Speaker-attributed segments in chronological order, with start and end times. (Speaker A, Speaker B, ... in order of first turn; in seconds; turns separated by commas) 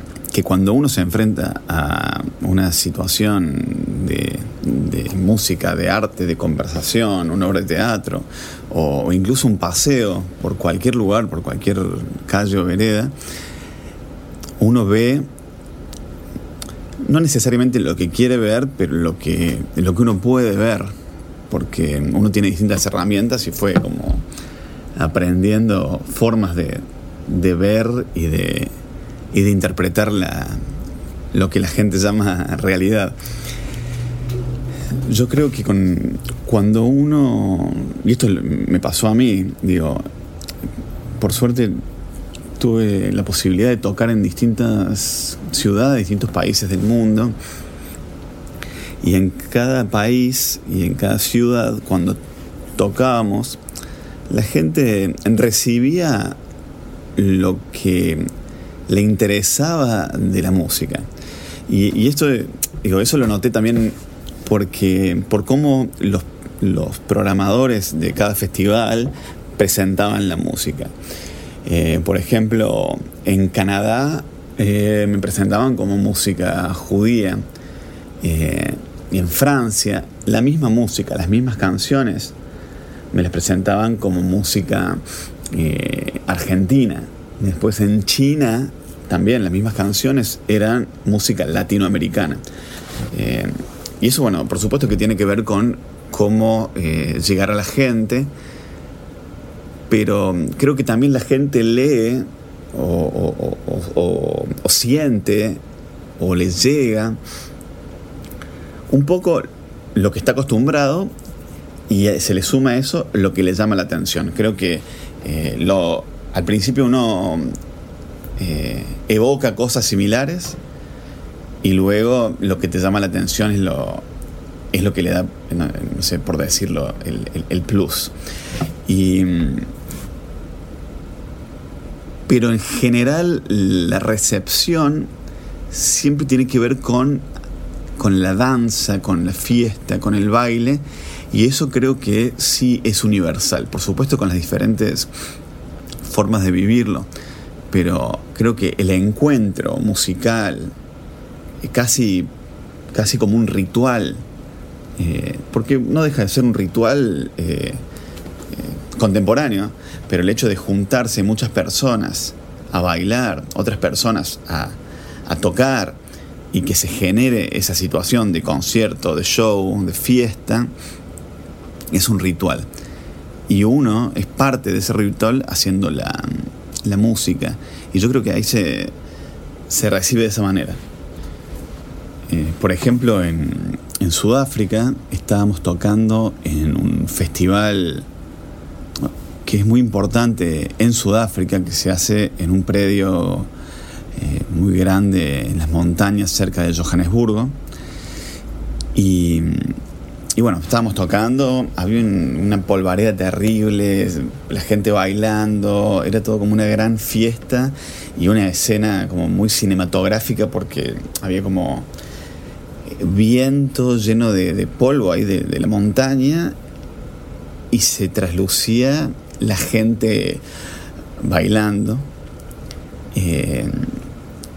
Speaker A: 0.3-13.1, Speaker A: 14.6-15.3, Speaker A: 17.0-20.9, Speaker A: 21.5-24.2, Speaker A: 25.0-28.7, Speaker A: 29.3-30.6, Speaker A: 31.3-33.1, Speaker A: 35.1-40.0, Speaker A: 41.2-41.8, Speaker A: 42.6-47.4, Speaker A: 49.0-52.2, Speaker A: 52.8-53.6, Speaker A: 54.3-56.4, Speaker A: 57.2-58.3, Speaker A: 58.9-61.1, Speaker A: 61.7-70.9, Speaker A: 71.7-77.4, Speaker A: 78.2-82.3, Speaker A: 83.1-92.4, Speaker A: 93.1-98.3, Speaker A: 99.9-105.6, Speaker A: 106.2-107.2, Speaker A: 108.9-111.1, Speaker A: 111.9-117.5, Speaker A: 118.4-120.6, Speaker A: 121.6-124.1, Speaker A: 124.7-128.1, Speaker A: 128.9-129.7, Speaker A: 132.3-135.1, Speaker A: 135.7-137.3, Speaker A: 138.0-145.1, Speaker A: 146.0-147.1, Speaker A: 147.7-150.7, Speaker A: 151.6-152.3, Speaker A: 152.9-154.2, Speaker A: 155.0-157.8, Speaker A: 158.5-166.0, Speaker A: 166.5-170.7, Speaker A: 171.9-172.7, Speaker A: 173.5-178.9, Speaker A: 179.7-180.8, Speaker A: 182.3-188.1, Speaker A: 189.0-193.5, Speaker A: 194.2-197.6, Speaker A: 198.9-199.8, Speaker A: 200.4-211.9, Speaker A: 212.9-216.6, Speaker A: 217.7-220.4, Speaker A: 221.2-222.1, Speaker A: 223.1-224.0